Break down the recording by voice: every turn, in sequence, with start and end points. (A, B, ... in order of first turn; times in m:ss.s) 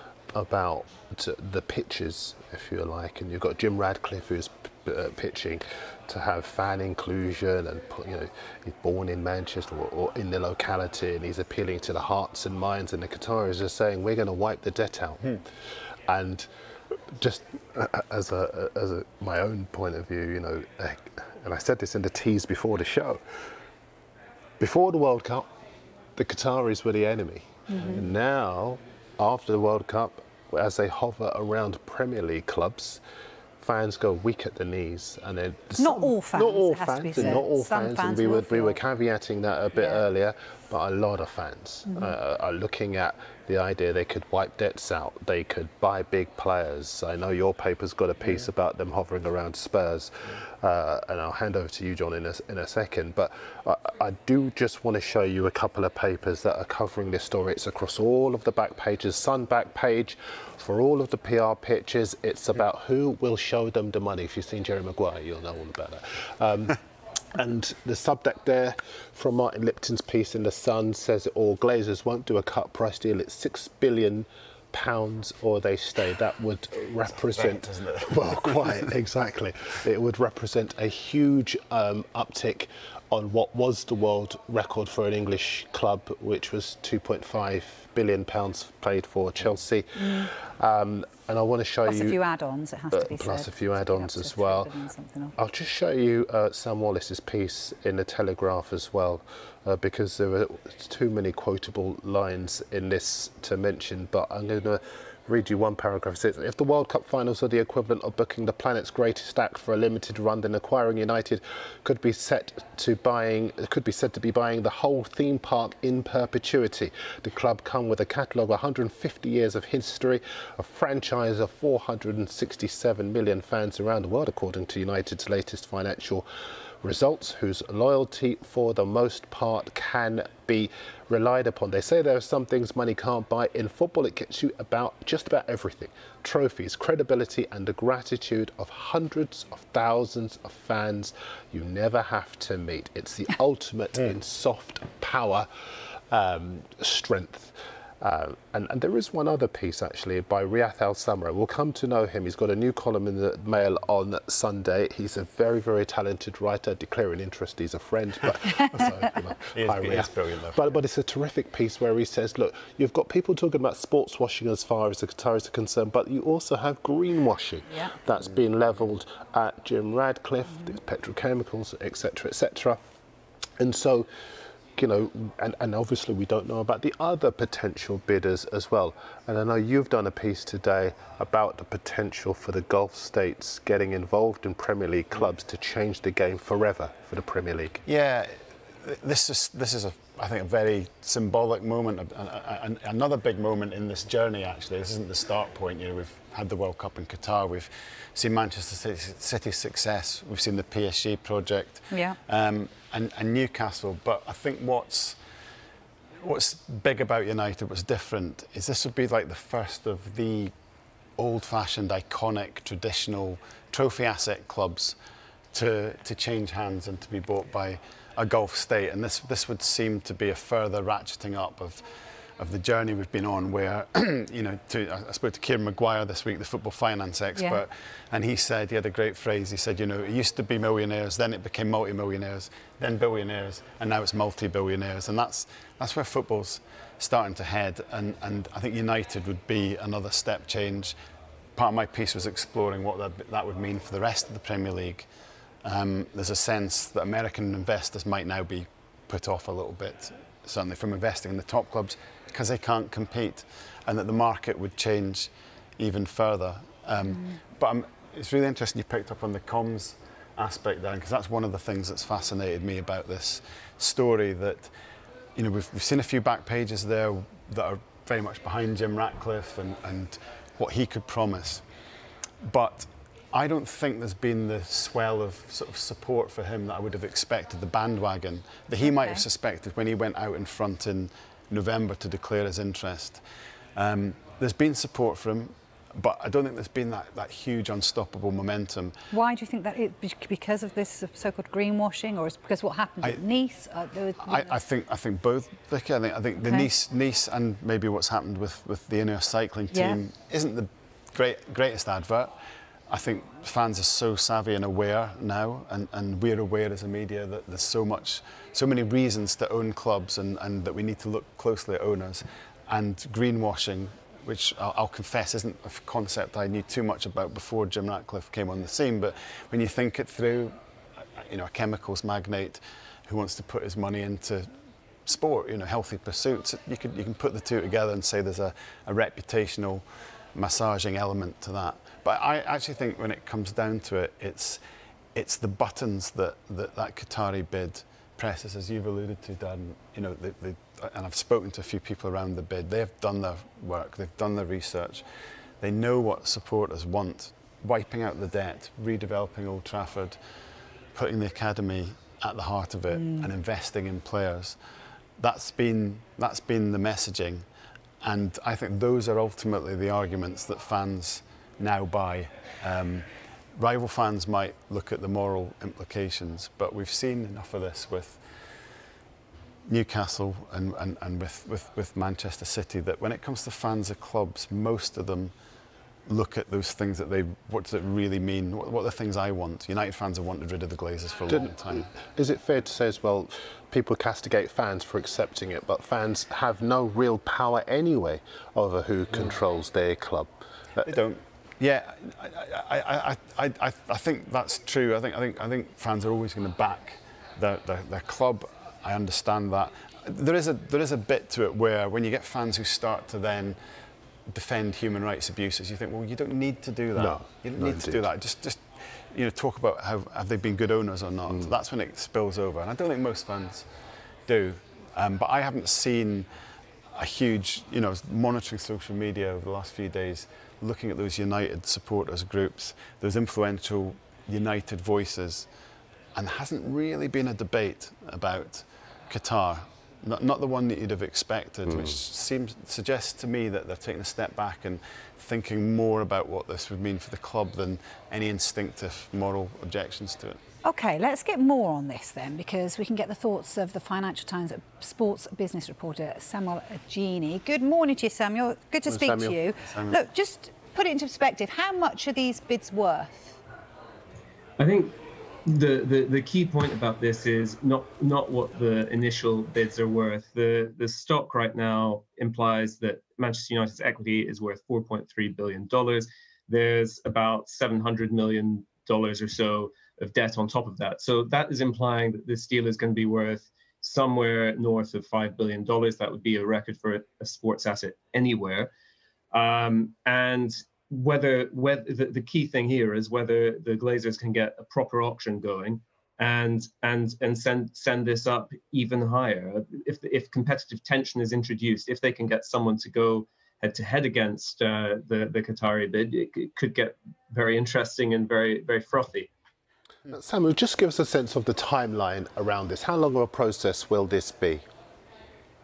0:00.3-0:15.4 A
0:16.1-0:16.5 A
0:17.1-0:23.2 A
0:24.6-0:25.5 A
0:26.2-0:33.0 A
0:27.7-0:28.1 B
0:33.6-1:06.8 A
0:35.8-0:38.8 B
0:39.8-0:40.0 B
0:41.9-0:42.1 B
1:07.3-1:32.2 A
1:17.1-1:18.9 C
1:31.9-1:35.3 B
1:32.9-1:34.7 A
1:35.4-2:06.3 A
2:06.8-2:25.5 A
2:26.1-2:52.8 A
2:39.5-2:40.7 C
2:53.6-2:54.1 A
2:54.8-3:07.8 A
3:07.9-3:08.3 C
3:08.8-3:25.2 C
3:21.9-3:22.2 B
3:26.2-3:30.5 C
3:31.2-3:35.0 C
3:35.5-3:41.8 C
3:42.4-4:01.0 C
4:01.6-4:05.1 C
4:05.6-4:24.7 C
4:25.4-4:31.6 C
4:32.4-4:43.2 C
4:38.8-4:39.2 B
4:43.8-4:49.0 C
4:49.1-4:54.5 B
4:54.2-5:02.3 C
4:59.7-5:00.0 B
5:02.9-5:20.5 C
5:21.2-5:24.5 C
5:25.1-5:34.6 C
5:35.2-5:45.0 C
5:45.6-5:50.2 C
5:50.9-5:54.6 C
5:52.9-5:53.3 B
5:55.2-5:57.5 C
5:58.0-6:08.2 C
6:09.7-6:15.3 C
6:16.1-6:21.9 C
6:21.3-6:30.9 A
6:30.9-6:43.6 C
6:44.3-6:53.7 C
6:47.0-6:48.0 A
6:54.3-6:56.3 C
6:56.9-7:05.5 C
7:06.2-7:20.4 C
7:20.6-7:33.4 B
7:28.9-7:29.4 A
7:29.6-7:30.0 C
7:34.6-7:58.7 D
7:59.3-8:19.3 D
8:20.1-8:24.6 A